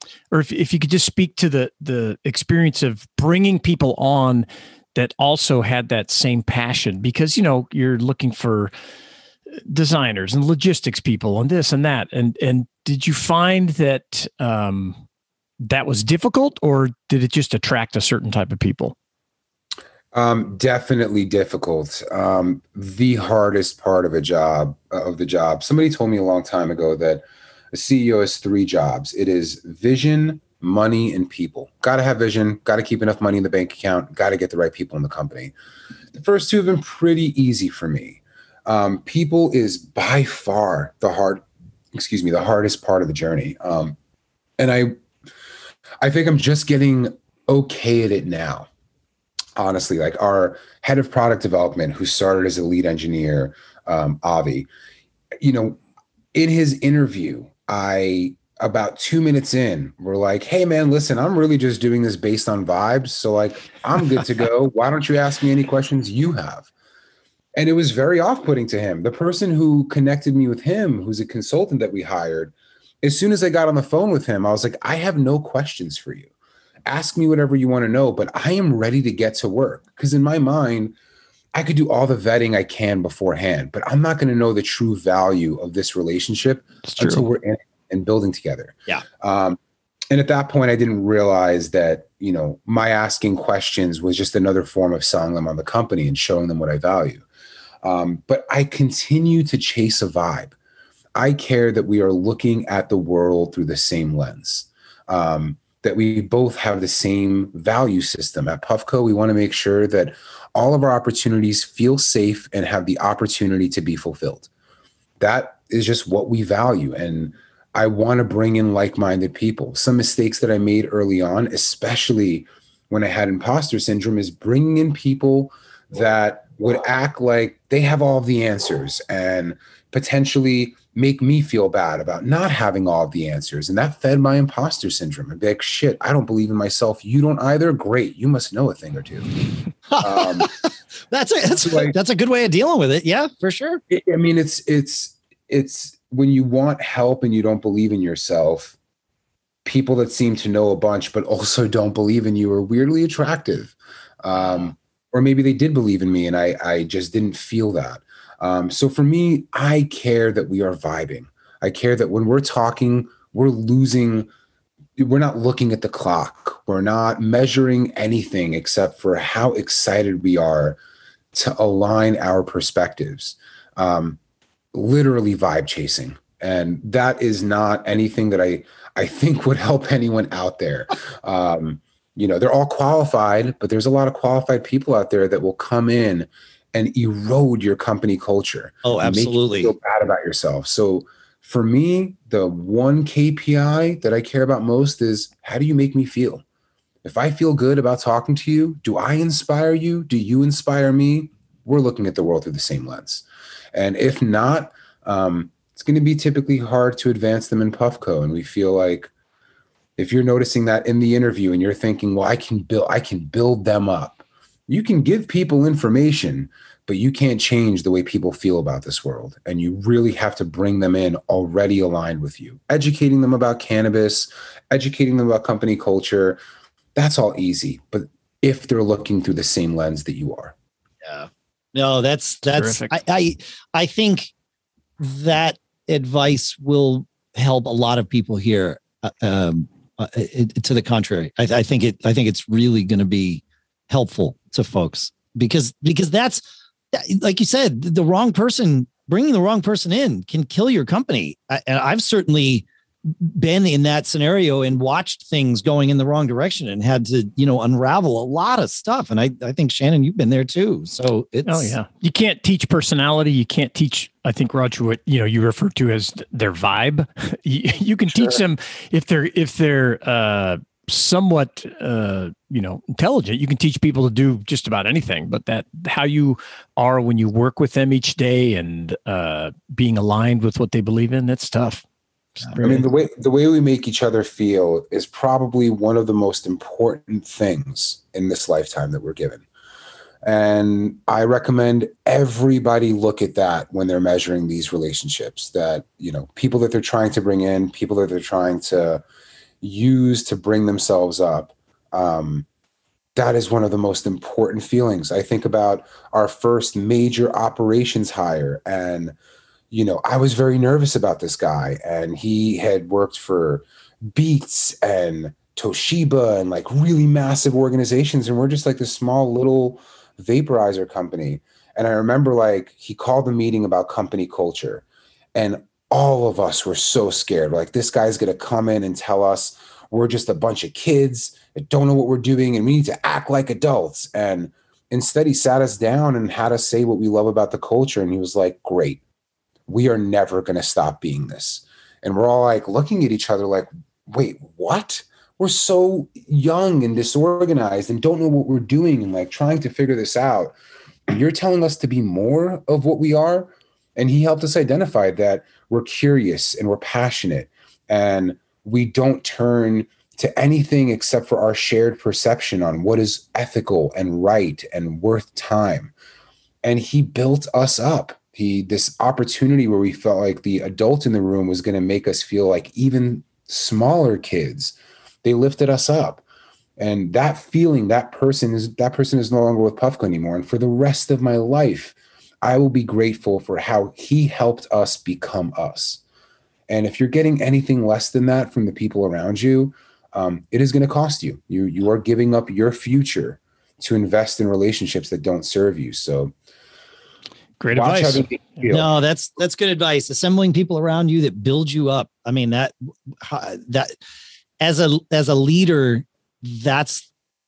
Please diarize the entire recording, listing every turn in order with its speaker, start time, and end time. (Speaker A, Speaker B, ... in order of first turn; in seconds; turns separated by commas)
Speaker A: 0.3-8.7, Speaker A: 9.7-15.0, Speaker A: 15.6-18.9, Speaker B: 20.1-35.5, Speaker B: 36.1-44.0, Speaker B: 44.6-45.0, Speaker B: 46.0-48.7, Speaker B: 49.6-54.7, Speaker B: 55.4-55.8, Speaker B: 56.3-66.7, Speaker B: 67.5-76.3, Speaker B: 76.8-80.9, Speaker B: 81.5-89.6, Speaker A: 86.9-87.2, Speaker B: 90.1-97.2, Speaker B: 97.8-100.5, Speaker B: 101.1-114.5, Speaker B: 115.2-139.3, Speaker C: 139.9-143.8, Speaker B: 140.0-140.5, Speaker B: 141.5-141.9, Speaker B: 143.9-148.8, Speaker B: 149.6-164.3, Speaker B: 165.0-170.8, Speaker B: 171.3-174.2, Speaker B: 174.7-196.4, Speaker C: 188.8-189.7, Speaker B: 197.0-209.1, Speaker B: 210.0-226.4, Speaker B: 226.9-230.5, Speaker C: 231.0-234.3, Speaker A: 232.5-233.0, Speaker C: 235.0-246.4, Speaker C: 246.9-261.8, Speaker A: 261.4-281.8, Speaker B: 268.1-268.4, Speaker A: 282.4-282.8, Speaker B: 282.6-289.4, Speaker B: 290.2-299.0, Speaker B: 299.6-302.4, Speaker B: 303.1-309.1, Speaker B: 309.7-324.8, Speaker B: 325.3-339.0, Speaker B: 339.7-350.5, Speaker B: 351.1-365.9, Speaker B: 366.6-376.2, Speaker B: 376.8-386.0, Speaker B: 386.7-396.3, Speaker A: 397.6-398.5, Speaker B: 397.7-398.9, Speaker C: 398.7-403.9, Speaker C: 404.6-407.1